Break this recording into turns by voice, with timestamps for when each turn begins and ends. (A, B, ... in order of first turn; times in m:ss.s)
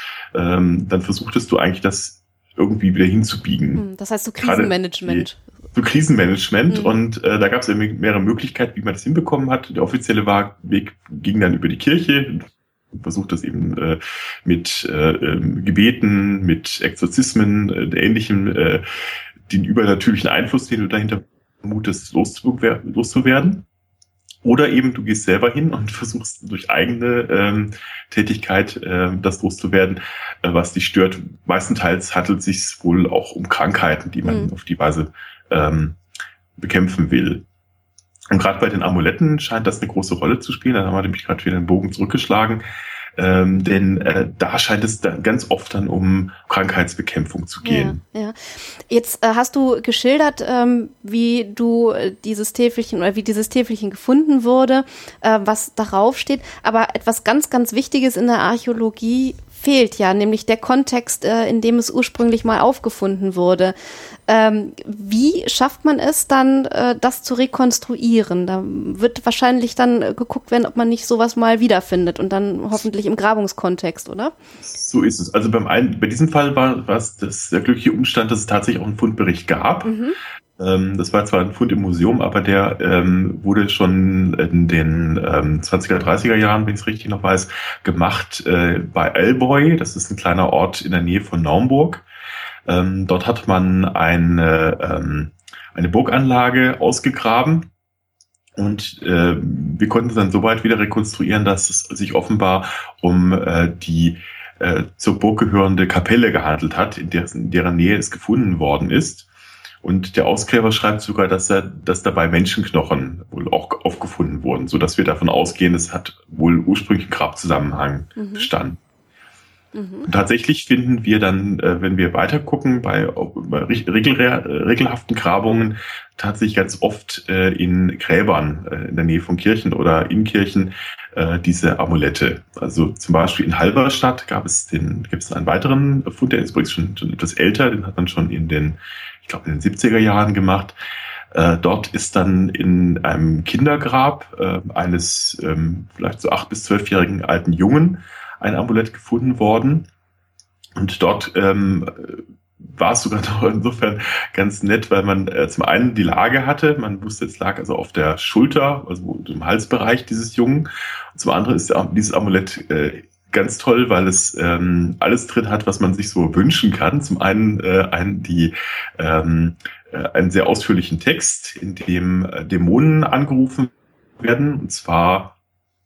0:00.3-0:03.8 A
0:03.8-0:05.4 B
0:04.4-0:18.8 A
0:06.7-0:07.0 B
0:19.5-0:23.6 A
0:24.4-0:36.0 A
0:34.2-0:34.5 B
0:36.6-0:37.4 A
0:38.3-0:42.6 A
0:43.2-0:48.0 A
0:47.6-1:03.8 B
1:04.3-1:14.3 B
1:14.6-1:19.9 A
1:19.8-1:20.2 B
1:20.6-1:32.0 A
1:32.7-1:37.7 A
1:38.6-1:49.3 A
1:49.8-1:58.8 A
1:58.2-1:58.5 B
1:59.7-2:00.1 B
2:00.1-2:20.8 A
2:21.3-2:29.9 A
2:30.8-2:55.4 A